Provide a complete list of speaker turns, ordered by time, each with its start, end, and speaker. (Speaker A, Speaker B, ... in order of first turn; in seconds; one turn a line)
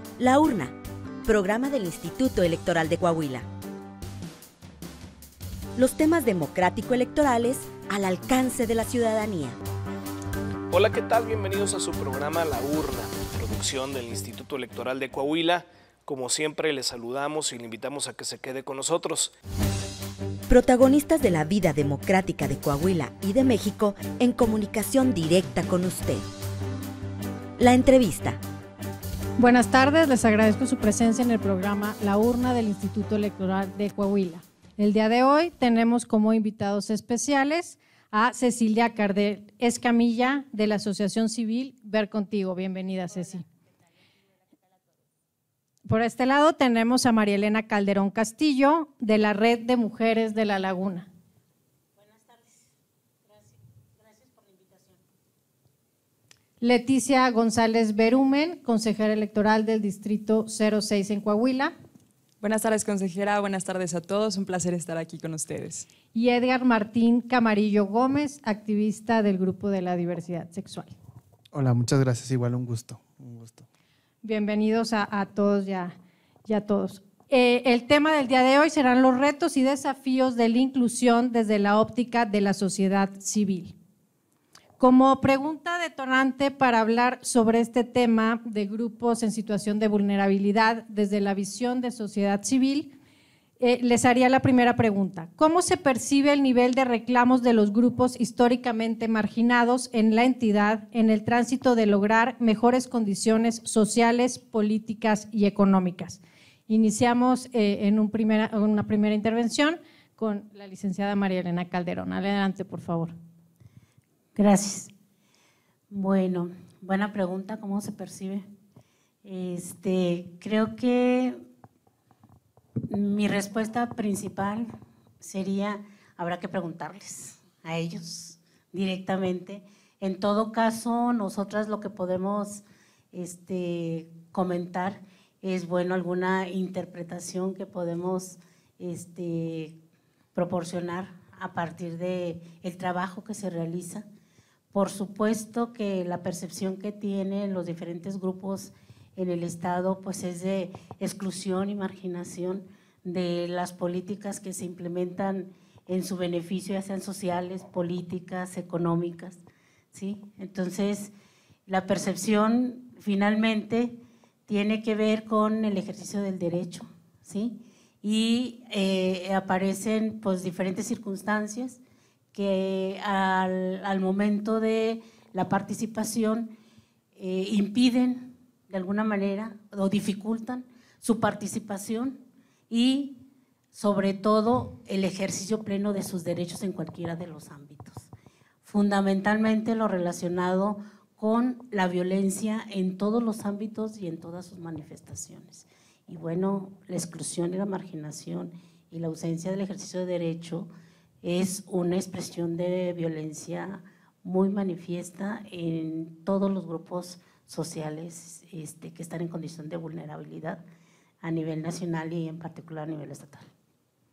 Speaker A: 0.2-3.5
Speaker A: 5.8-9.6
Speaker B: 10.7-19.3
Speaker A: 20.5-26.2
Speaker A: 27.6-28.4
Speaker C: 29.4-43.5
Speaker C: 45.9-51.1
Speaker D: 52.0-52.6
Speaker D: 53.2-55.0
Speaker C: 56.6-61.7
Speaker E: 62.4-65.9
Speaker C: 66.1-71.0
Speaker F: 71.5-73.7
Speaker C: 74.2-83.8
Speaker C: 84.8-92.9
Speaker C: 93.6-113.1
Speaker D: 114.3-114.9
Speaker D: 115.9-118.5
Speaker D: 119.2-121.4
Speaker D: 122.9-139.8
Speaker D: 140.3-144.1
Speaker D: 144.7-159.4
Speaker D: 159.9-161.1
Speaker D: 161.7-171.8
Speaker D: 172.3-176.5
Speaker D: 177.2-188.1
Speaker D: 188.6-200.7
Speaker D: 201.2-210.6
Speaker D: 211.2-213.5